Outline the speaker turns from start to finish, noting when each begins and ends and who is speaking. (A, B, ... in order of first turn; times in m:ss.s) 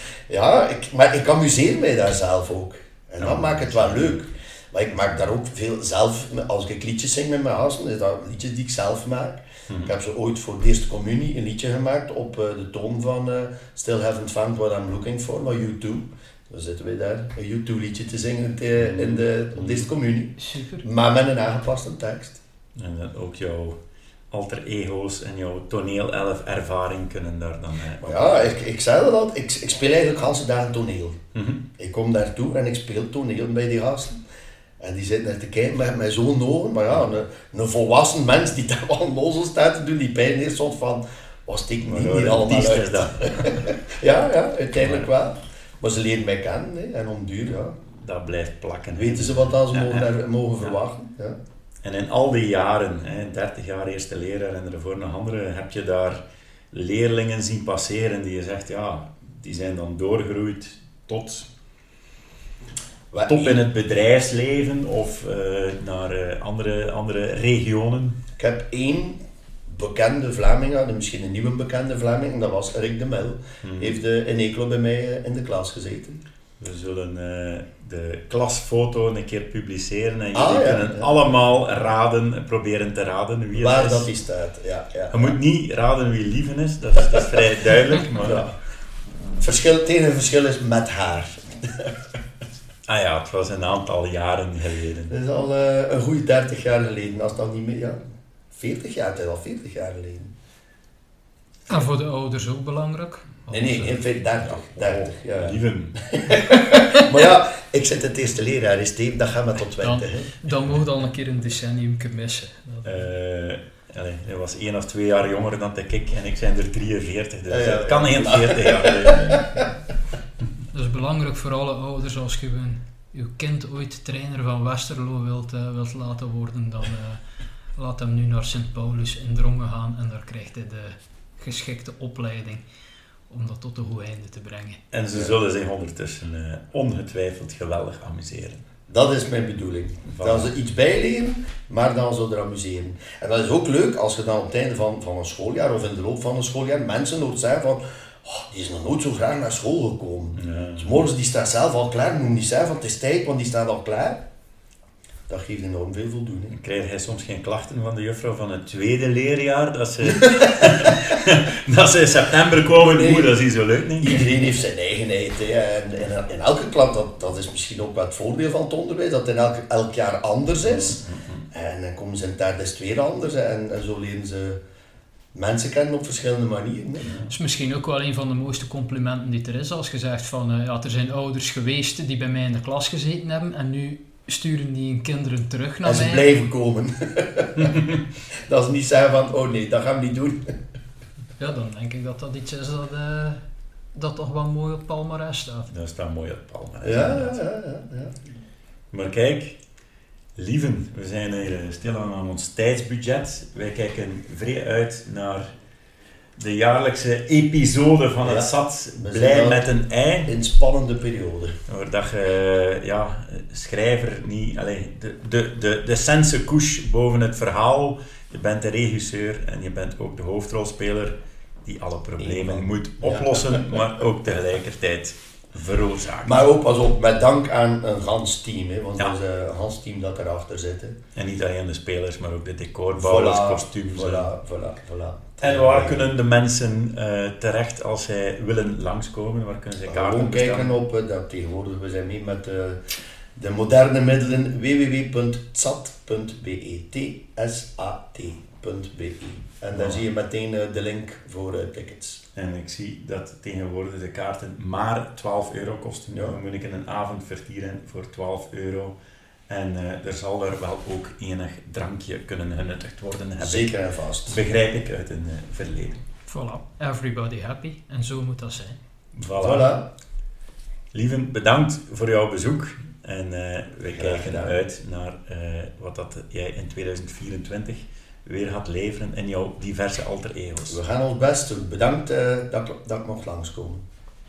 0:00.3-0:22.4 A
0:03.2-0:04.2 B
0:18.8-0:19.9 B
0:20.4-0:20.8 C
0:22.8-0:23.8 B
0:24.3-0:28.6 B
0:28.0-0:31.2 A
0:31.3-0:31.6 B
0:31.8-0:34.2 A
0:34.8-0:47.8 A
0:41.8-0:43.7 B
0:44.8-0:45.1 B
0:47.9-0:50.1 B
0:49.0-0:51.4 A
0:51.8-1:01.5 B
1:03.1-1:03.6 A
1:03.3-1:08.2 B
1:08.4-1:16.2 A
1:13.6-1:14.0 B
1:16.6-1:24.1 B
1:20.3-1:21.1 A
1:23.5-1:25.4 A
1:25.1-1:28.4 B
1:28.2-1:28.5 A
1:29.4-1:31.9 A
1:32.9-1:35.1 B
1:35.1-1:38.0 A
1:38.5-1:40.3 A
1:41.7-1:44.0 C
1:43.5-1:50.3 A
1:44.4-1:46.4 B
1:49.8-1:53.1 C
1:52.8-1:59.6 B
1:57.5-1:59.7 A
2:00.7-2:07.2 C
2:07.8-2:12.6 C
2:13.3-2:14.8 C
2:14.9-2:18.6 B
2:18.9-2:34.2 A
2:20.1-2:20.5 B
2:30.4-2:31.0 B
2:35.3-2:36.6 A
2:36.5-2:44.4 B
2:40.2-2:41.0 A
2:42.7-2:43.3 A
2:44.0-2:54.6 A
2:50.6-2:51.4 B
2:55.3-2:57.1 A
2:57.0-2:57.3 B
2:57.3-3:06.2 C
3:05.8-3:07.7 A
3:07.6-3:08.0 B
3:08.3-3:10.5 A
3:11.4-3:13.4 C
3:13.9-3:15.7 C
3:15.7-3:17.4 B
3:16.8-3:18.1 A
3:18.9-3:19.6 B
3:20.4-3:25.5 B
3:26.4-3:30.3 B
3:28.2-3:29.7 A
3:30.2-3:31.6 A
3:31.7-3:46.4 B
3:42.2-3:43.8 A
3:46.2-3:51.0 A
3:51.1-3:54.3 B
3:52.9-3:56.0 A
3:55.4-4:00.7 B
3:59.8-4:02.8 A
4:03.4-4:12.2 A
4:09.7-4:10.0 B
4:12.4-4:19.0 B
4:16.1-4:16.4 A
4:19.5-4:26.0 B
4:23.4-4:24.4 A
4:26.3-4:28.8 C
4:29.1-4:29.7 B
4:29.3-4:29.9 A
4:30.9-4:40.8 B
4:33.9-4:34.5 A
4:40.7-4:43.8 A